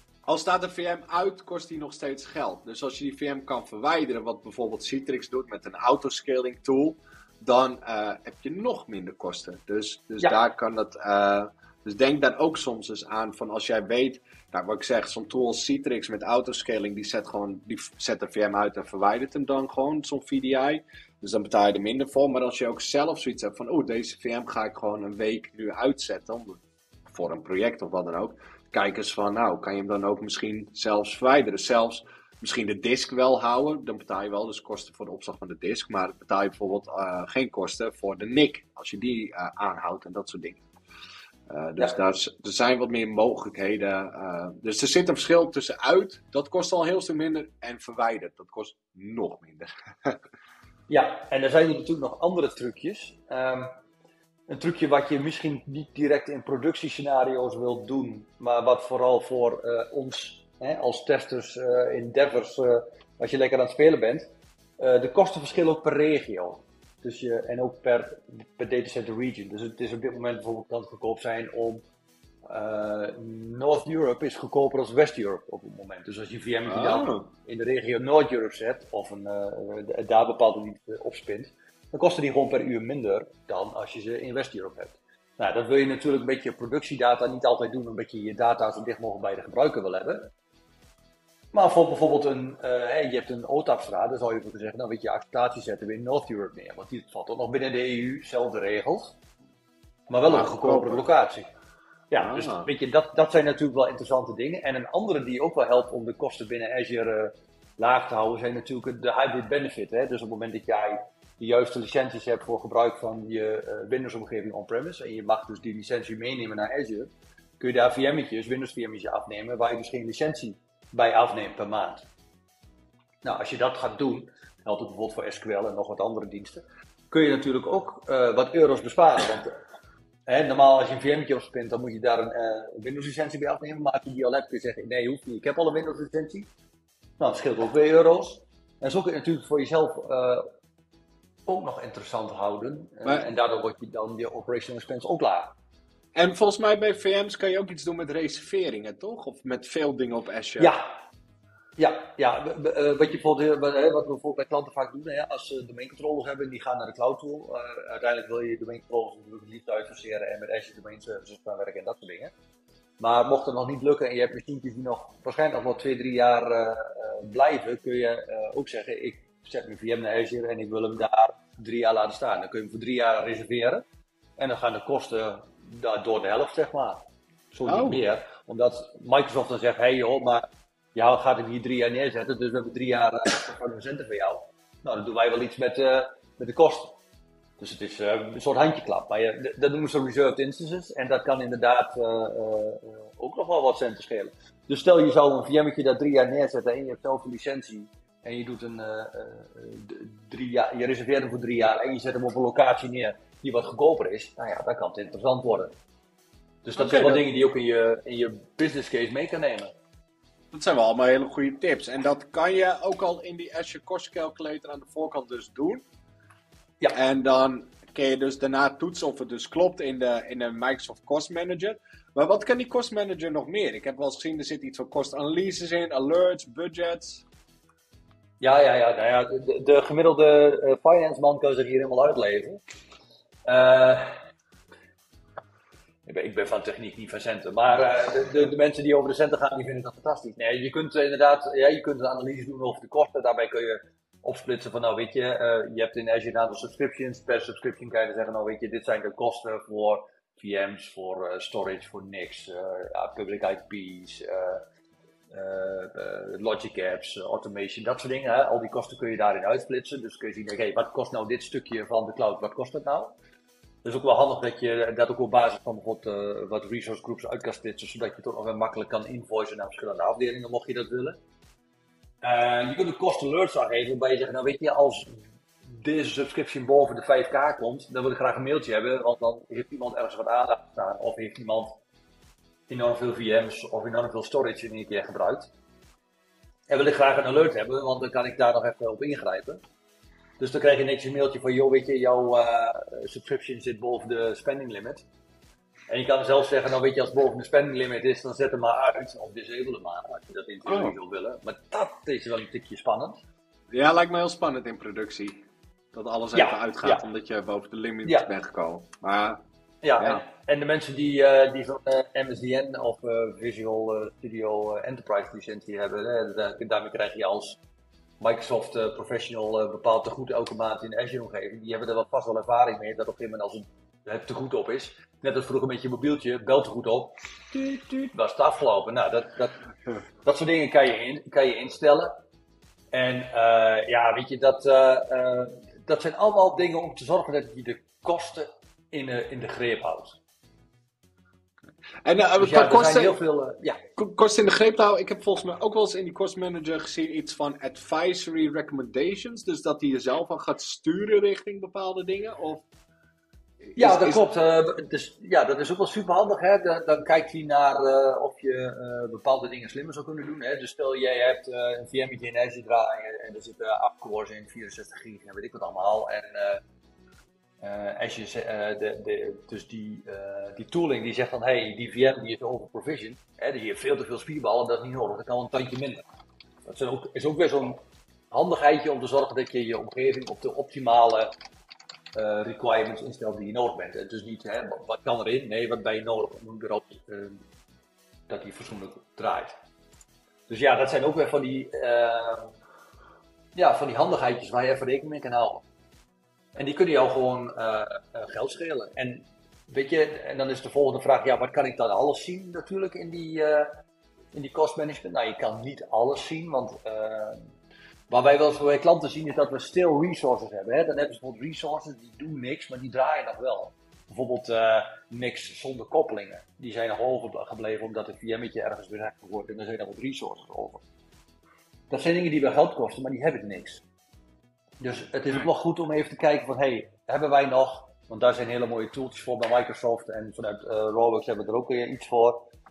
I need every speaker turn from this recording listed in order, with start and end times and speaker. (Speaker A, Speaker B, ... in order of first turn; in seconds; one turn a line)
Speaker A: 0.3-40.6
Speaker A: 41.5-50.2
Speaker B: 50.9-53.7
Speaker B: 54.5-64.2
Speaker B: 64.8-71.8
Speaker B: 72.5-90.3
Speaker A: 76.7-77.3
Speaker B: 91.5-99.2
Speaker B: 100.1-101.5
Speaker A: 100.3-101.0
Speaker B: 102.1-122.0
Speaker A: 102.2-102.7
Speaker B: 123.2-129.5
Speaker B: 130.3-136.5
Speaker B: 137.2-140.4
Speaker B: 141.5-145.5
Speaker A: 146.1-150.7
Speaker B: 150.6-150.8
Speaker B: 151.8-162.3
Speaker B: 163.0-173.8
Speaker B: 174.4-177.0
Speaker B: 177.5-187.0
Speaker A: 177.7-178.0
Speaker B: 187.6-205.7
Speaker B: 206.6-209.7
Speaker A: 206.8-207.2
Speaker A: 210.5-215.8
Speaker A: 216.9-227.2
Speaker B: 228.4-232.6
Speaker B: 233.5-234.1
Speaker B: 236.1-254.6
Speaker B: 255.3-263.1
Speaker B: 263.8-271.2
Speaker B: 272.2-281.8
Speaker B: 282.7-285.5
Speaker B: 286.7-289.6
Speaker B: 290.4-295.0
Speaker B: 295.9-303.2
Speaker A: 300.6-300.9
Speaker A: 303.7-305.4
Speaker A: 305.9-309.4
Speaker B: 306.3-307.0
Speaker B: 309.8-317.6
Speaker B: 318.2-329.6
Speaker B: 330.2-332.1
Speaker B: 332.9-340.2
Speaker A: 342.0-343.2
Speaker B: 342.4-343.8
Speaker A: 344.0-352.6
Speaker A: 353.7-354.2
Speaker B: 353.8-366.6
Speaker B: 367.6-376.0
Speaker B: 376.6-377.8
Speaker B: 378.3-381.3
Speaker B: 382.1-387.4
Speaker B: 388.3-389.5
Speaker B: 390.5-392.5
Speaker B: 393.5-395.6
Speaker B: 396.5-403.7
Speaker B: 404.3-407.4
Speaker B: 408.1-420.8
Speaker B: 421.9-423.8
Speaker B: 424.8-432.5